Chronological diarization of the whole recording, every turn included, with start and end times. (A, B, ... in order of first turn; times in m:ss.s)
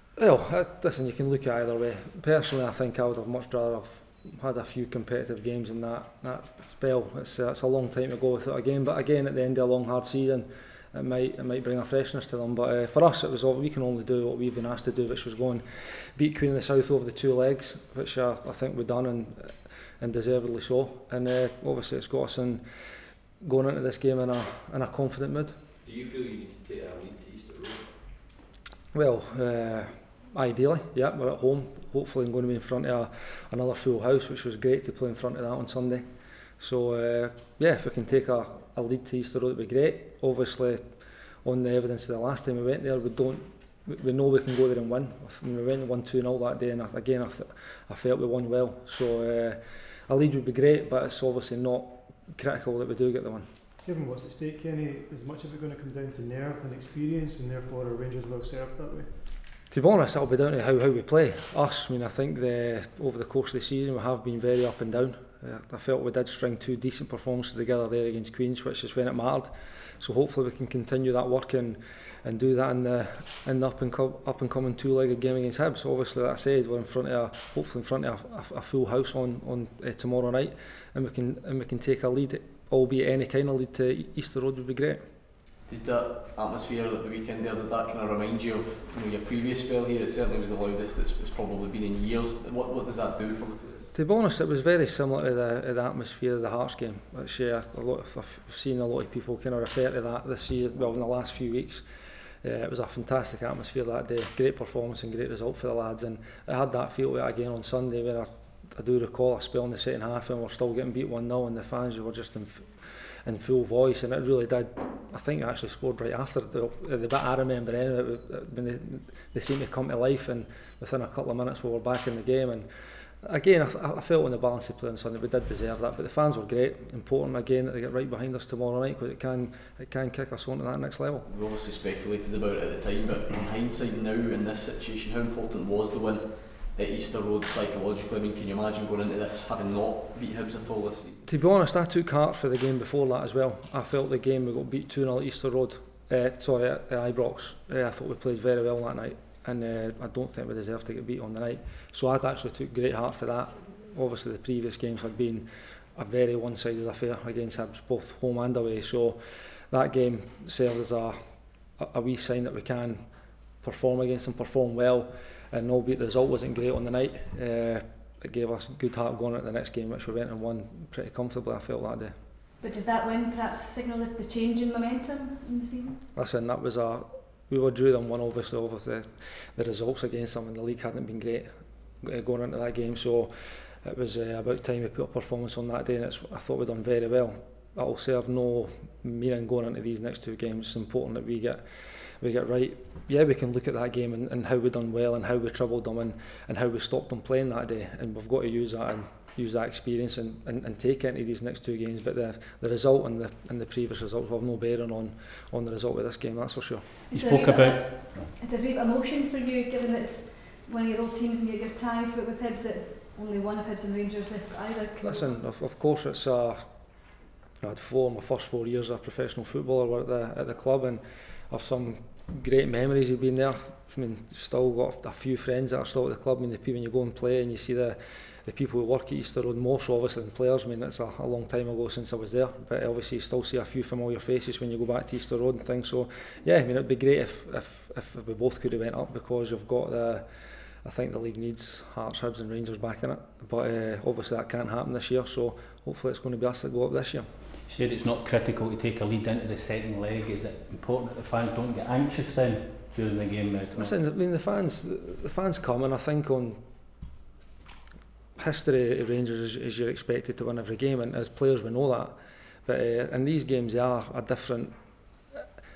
0:00.2-0:22.6 A
0:23.4-0:25.6 A
0:25.8-0:27.9 B
0:28.9-0:36.0 A
0:36.6-0:53.5 A
0:53.8-0:59.1 C
0:59.7-1:25.0 A
1:25.7-1:33.9 D
1:33.9-1:41.8 A
1:42.4-2:02.7 A
2:03.2-2:11.3 A
2:11.2-2:21.2 D
2:21.2-2:39.2 A
2:39.7-2:41.2 A
2:41.7-2:43.0 A
2:43.5-2:52.1 A
2:52.6-2:56.0 E
2:56.2-3:01.5 A
3:02.0-3:03.3 A
3:03.8-3:26.8 A
3:27.1-3:35.4 E
3:27.1-3:28.3 F
3:35.0-3:37.0 A
3:37.6-4:00.2 A
4:00.8-4:07.3 A
4:07.7-4:14.0 F
4:13.8-4:16.6 A
4:18.4-4:24.7 A